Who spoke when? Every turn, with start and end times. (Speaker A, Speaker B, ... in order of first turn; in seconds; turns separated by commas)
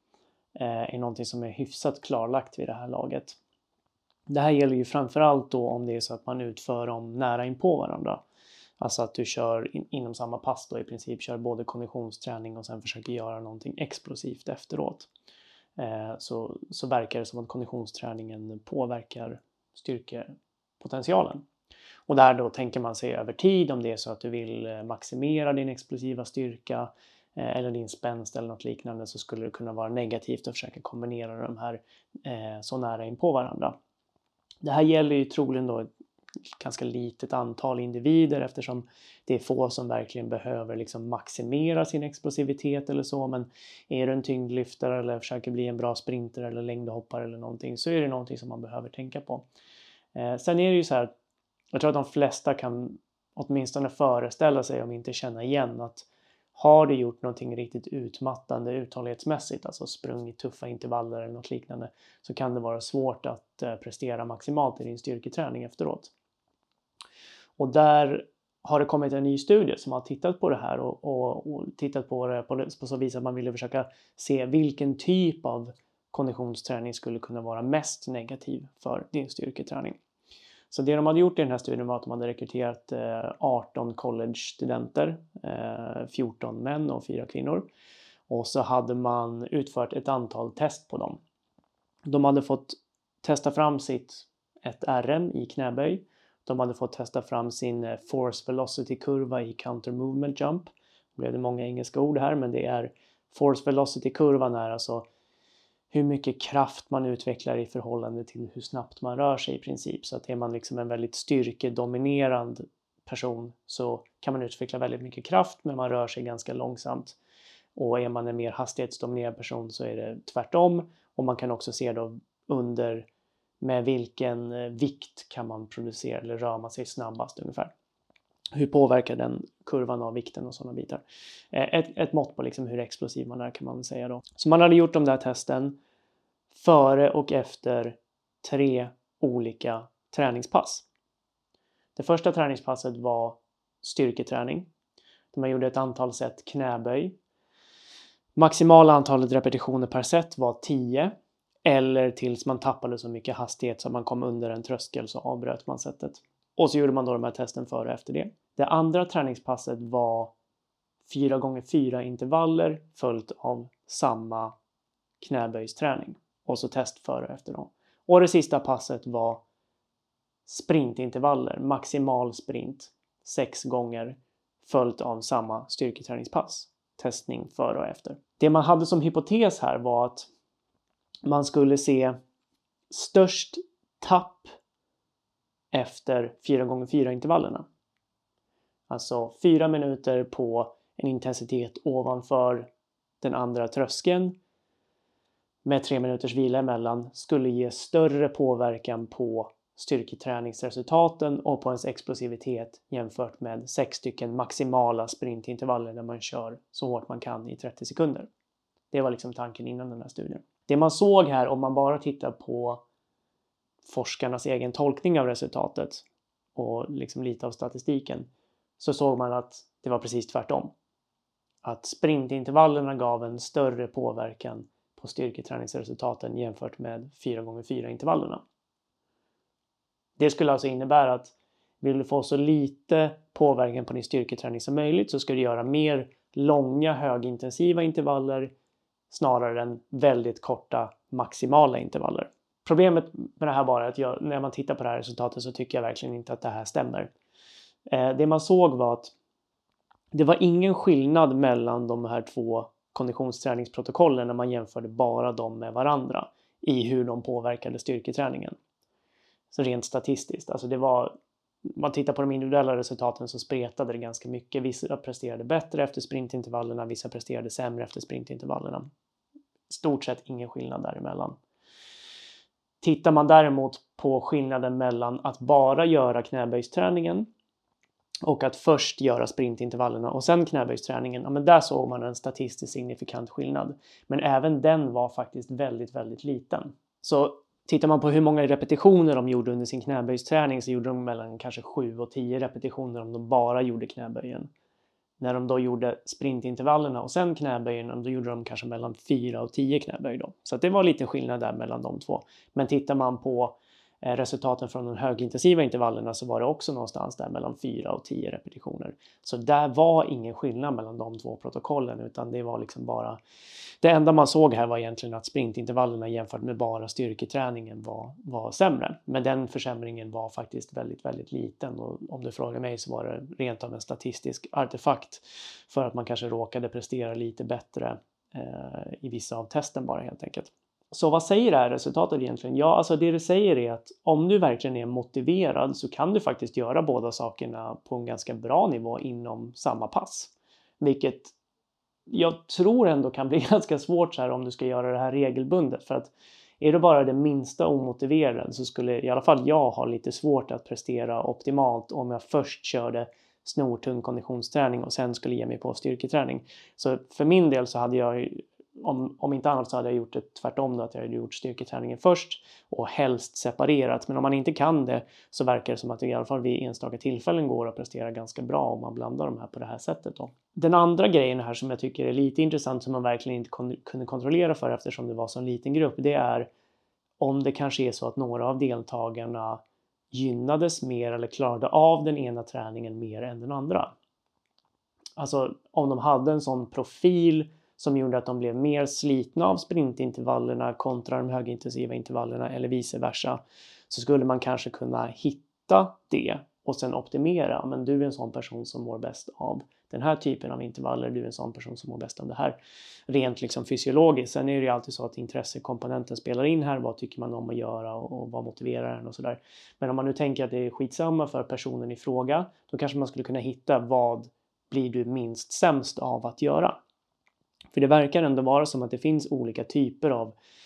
Speaker A: 0.6-3.4, Speaker A: 4.3-8.2, Speaker A: 8.8-15.1, Speaker A: 15.8-21.4, Speaker A: 22.1-33.8, Speaker A: 34.6-35.9, Speaker A: 36.5-49.5, Speaker A: 50.1-51.1, Speaker A: 51.7-66.1, Speaker A: 67.6-80.0, Speaker A: 80.7-87.7, Speaker A: 88.3-91.2, Speaker A: 92.1-105.0, Speaker A: 105.9-117.2, Speaker A: 117.8-123.1, Speaker A: 123.6-127.7, Speaker A: 128.5-135.8, Speaker A: 136.5-140.9, Speaker A: 141.9-144.7, Speaker A: 145.3-147.2, Speaker A: 148.4-160.3, Speaker A: 161.1-164.6, Speaker A: 165.2-169.4, Speaker A: 170.5-180.3, Speaker A: 181.2-182.2, Speaker A: 182.9-184.5, Speaker A: 185.7-187.7, Speaker A: 188.9-192.7, Speaker A: 193.2-194.4, Speaker A: 195.7-208.3, Speaker A: 208.9-212.8, Speaker A: 213.8-220.7, Speaker A: 221.6-228.4, Speaker A: 230.2-238.5, Speaker A: 239.1-247.1, Speaker A: 247.9-249.1, Speaker A: 250.1-258.6, Speaker A: 259.5-261.1, Speaker A: 261.7-268.9, Speaker A: 269.7-271.4, Speaker A: 272.8-277.3, Speaker A: 278.2-294.5, Speaker A: 295.2-313.2, Speaker A: 313.8-341.3, Speaker A: 342.1-376.5, Speaker A: 377.2-383.9, Speaker A: 385.2-402.6, Speaker A: 403.1-416.8, Speaker A: 417.7-420.3